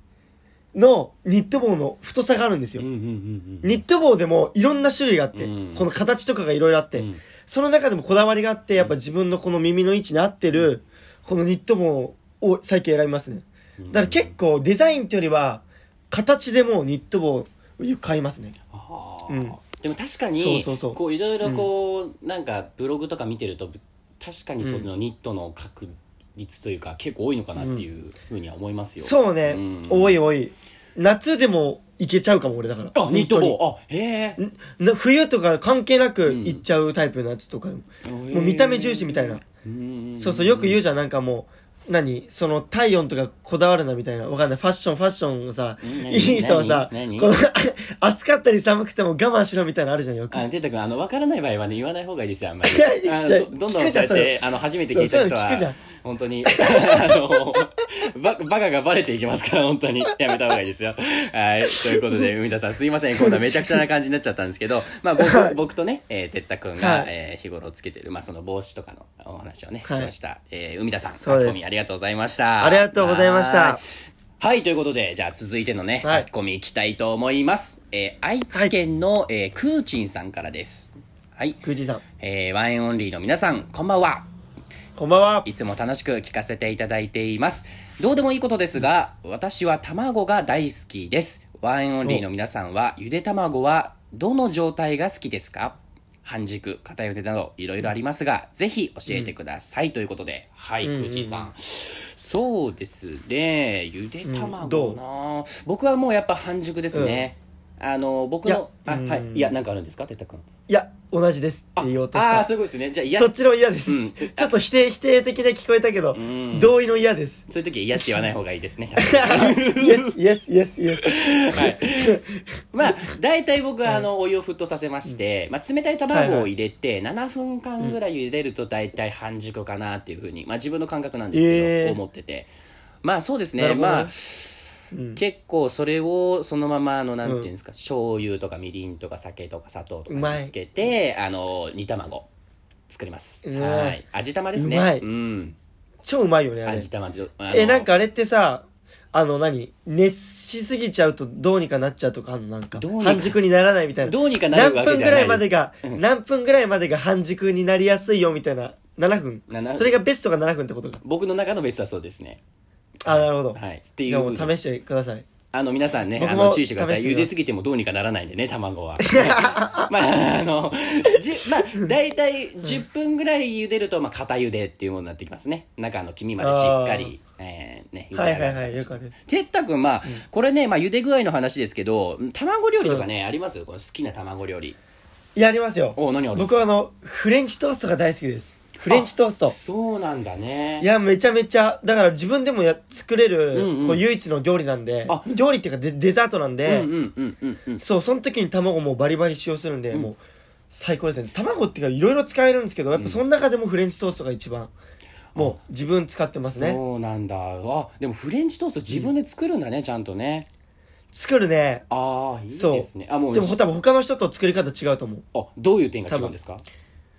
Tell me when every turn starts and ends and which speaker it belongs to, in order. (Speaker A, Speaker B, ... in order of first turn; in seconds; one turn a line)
Speaker A: 0.7-2.9
Speaker B: 2.8-3.8
Speaker A: 3.6-18.6
Speaker B: 5.3-5.9
Speaker B: 7.0-7.2
Speaker B: 13.8-14.3
Speaker B: 18.7-30.2
Speaker A: 19.3-19.6
Speaker A: 20.4-21.7
Speaker A: 24.6-24.9
Speaker A: 27.6-27.8
Speaker A: 29.0-33.6
Speaker B: 32.9-34.4
Speaker A: 34.4-39.4
Speaker B: 36.3-36.6
Speaker B: 38.0-40.8
Speaker A: 40.2-50.4
Speaker B: 45.8-47.3
Speaker B: 50.3-73.8
Speaker A: 52.7-54.4
Speaker A: 54.9-55.8
Speaker A: 56.5-57.1
Speaker A: 61.8-62.2
Speaker A: 63.2-63.8
Speaker A: 65.2-65.5
Speaker A: 66.8-67.1
Speaker A: 69.9-70.1
Speaker A: 71.2-71.6
Speaker A: 72.6-73.8
Speaker B: 74.4-81.6
Speaker A: 81.6-82.0
Speaker B: 82.2-84.3
Speaker A: 85.0-85.5
Speaker B: 85.5-110.5
Speaker A: 100.8-101.5
Speaker A: 104.3-105.0
Speaker A: 106.9-107.3
Speaker A: 108.5-109.5
Speaker A: 110.7-112.5
Speaker B: 111.8-113.3
Speaker A: 113.1-118.3
Speaker B: 113.9-114.5
Speaker B: 116.1-116.8
Speaker B: 117.5-120.2
Speaker A: 119.0-122.4
Speaker B: 121.0-122.2
Speaker B: 122.7-132.5
Speaker A: 126.1-126.5
Speaker A: 131.3-132.0
Speaker B: 133.0-142.3
Speaker A: 133.6-134.1
Speaker A: 134.9-135.2
Speaker A: 137.2-137.5
Speaker A: 140.1-140.5
Speaker B: 142.9-145.6
Speaker A: 143.4-144.0
Speaker A: 144.6-145.1
Speaker A: 146.0-146.9
Speaker B: 146.7-147.9
Speaker A: 147.5-161.0
Speaker B: 152.7-153.4
Speaker B: 154.0-156.0
Speaker B: 159.5-160.0
Speaker B: 161.0-162.4
Speaker B: 163.0-164.5
Speaker A: 163.1-165.3
Speaker B: 165.5-184.8
Speaker A: 166.2-167.3
Speaker A: 169.0-169.9
Speaker A: 176.4-177.1
Speaker A: 178.1-179.1
Speaker A: 185.3-189.6
Speaker B: 185.9-186.7
Speaker B: 188.9-190.9
Speaker A: 190.8-196.9
Speaker B: 193.5-194.0
Speaker B: 196.7-197.8
Speaker A: 197.8-200.2
Speaker A: 200.7-204.7
Speaker B: 202.9-203.2
Speaker A: 205.4-206.8
Speaker B: 206.4-210.5
Speaker A: 211.1-211.9
Speaker B: 211.9-213.6
Speaker A: 212.5-215.3
Speaker B: 215.3-216.6
Speaker A: 216.1-216.3